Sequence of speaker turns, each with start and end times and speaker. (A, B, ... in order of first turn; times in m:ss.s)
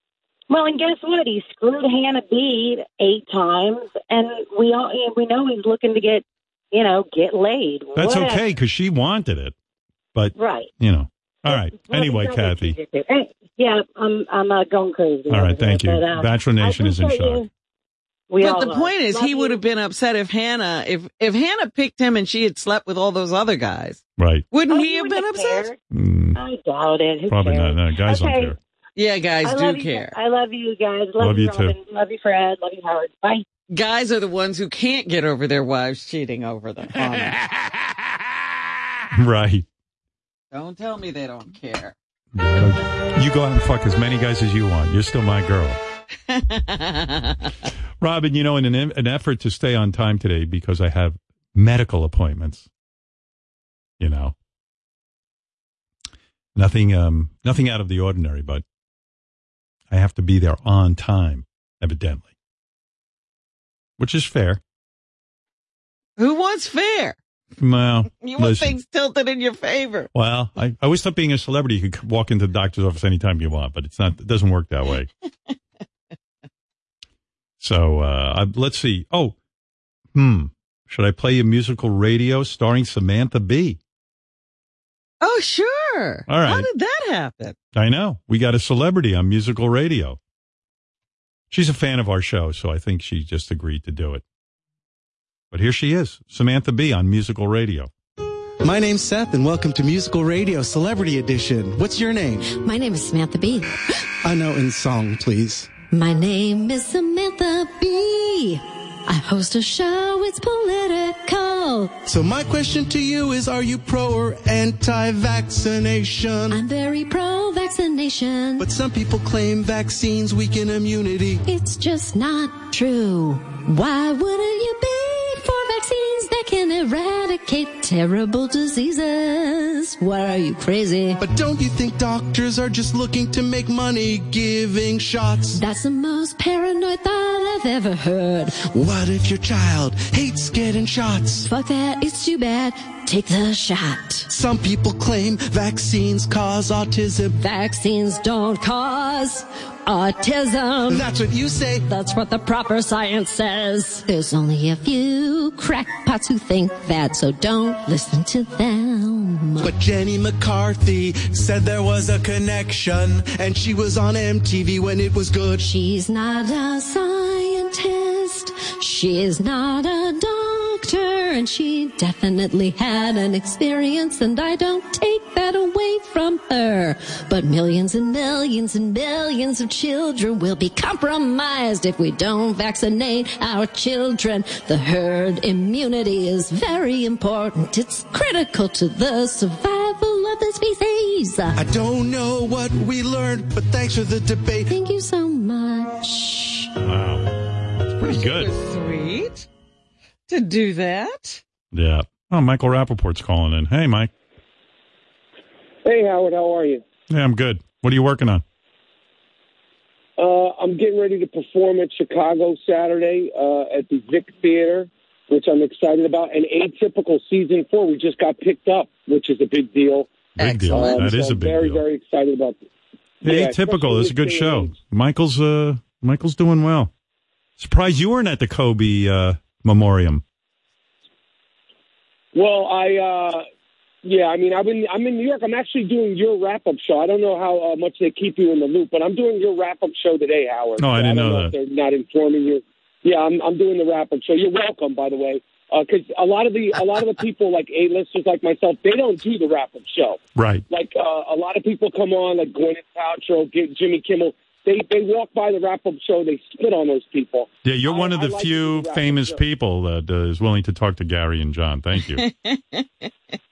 0:00.5-0:08.5 A
0:08.0-0:09.5 B
0:10.1-0:12.8 B
0:10.4-0:10.7 A
0:11.5-0:17.5 A
0:15.3-0:17.4 B
0:18.3-0:19.6 A
0:18.4-0:24.0 C
0:24.2-0:24.5 B
0:24.5-0:25.7 C
0:24.7-0:25.8 A
0:25.9-0:26.4 B
0:26.4-0:28.5 A
0:27.3-0:28.6 B
0:29.0-0:30.1 C
0:29.4-0:33.4 A
0:31.2-0:31.8 B
0:33.7-0:37.3 C
0:39.1-0:39.6 B
0:40.5-0:41.9 C
0:42.3-0:45.8 B
0:46.3-0:47.5 C
0:48.0-0:52.7 B
0:54.0-0:54.3 B
0:56.5-0:58.6 B
0:59.9-1:02.3 B
1:04.0-1:04.6 B
1:06.2-1:07.2 C
1:07.6-1:08.8 B
1:08.2-1:10.1 C
1:10.1-1:15.1 B
1:17.6-1:19.4 B
1:20.1-1:23.8 B
1:25.2-1:27.6 C
1:26.3-1:26.7 B
1:27.7-1:30.2 B
1:31.5-1:34.2 B
1:35.5-1:37.9 B
1:38.6-1:42.5 D
1:42.4-1:43.7 E
1:44.2-1:45.7 D
1:45.9-1:52.0 E
1:52.0-1:56.6 D
1:56.5-1:58.7 E
1:58.6-2:01.4 D
2:01.4-2:11.2 E
2:11.2-2:15.6 D
2:15.5-2:18.6 E
2:18.6-2:21.5 D
2:21.4-2:24.3 E
2:24.3-2:27.3 D
2:27.4-2:31.0 E
2:30.9-2:31.8 D
2:31.9-2:39.7 E
2:39.6-2:45.6 D
2:45.6-3:11.6 E
3:11.5-3:14.7 D
3:14.7-3:16.7 E
3:16.8-3:17.3 B
3:17.9-3:18.5 B
3:18.0-3:19.5 C
3:20.3-3:21.4 C
3:21.7-3:24.1 B
3:25.8-3:26.8 F
3:27.1-3:28.4 B
3:30.2-3:40.1 F
3:40.4-3:41.8 B
3:40.4-3:41.1 C
3:40.7-3:42.6 F
3:43.2-3:44.7 F
3:43.2-3:46.9 B
3:47.6-3:50.2 B
3:52.3-3:53.4 F
3:54.0-4:19.4 F
4:00.8-4:01.5 B
4:10.4-4:10.6 B
4:17.6-4:22.2 B
4:22.1-4:23.1 C